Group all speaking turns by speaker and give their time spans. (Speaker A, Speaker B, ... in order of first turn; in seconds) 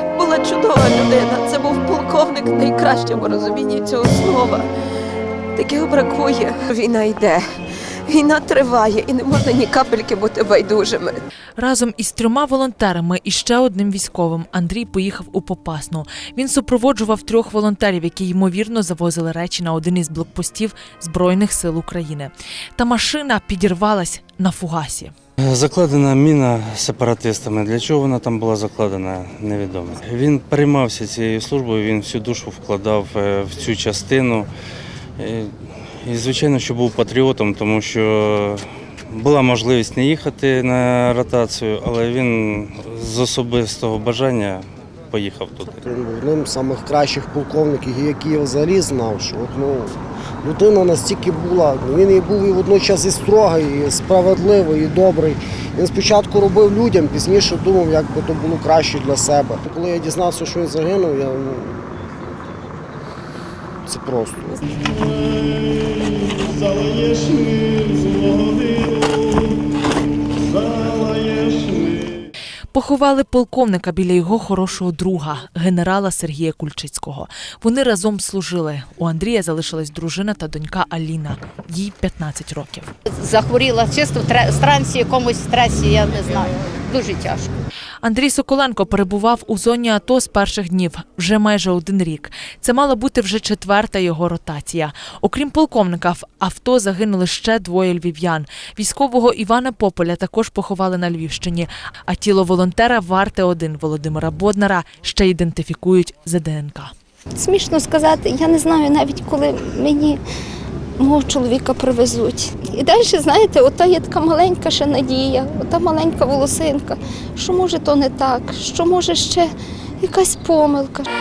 Speaker A: 0.2-4.7, 5.7-7.4, 8.2-11.1
Speaker B: 11.6-25.1, 72.7-82.9, 88.0-106.9
Speaker C: 25.4-34.5, 35.2-35.5, 36.0-45.8
Speaker D: 45.8-61.8, 63.9-64.6, 66.8-67.2, 68.0-68.8, 70.8-71.6
Speaker E: 83.1-87.5
Speaker F: 107.4-110.2, 111.0-119.5, 120.0-121.1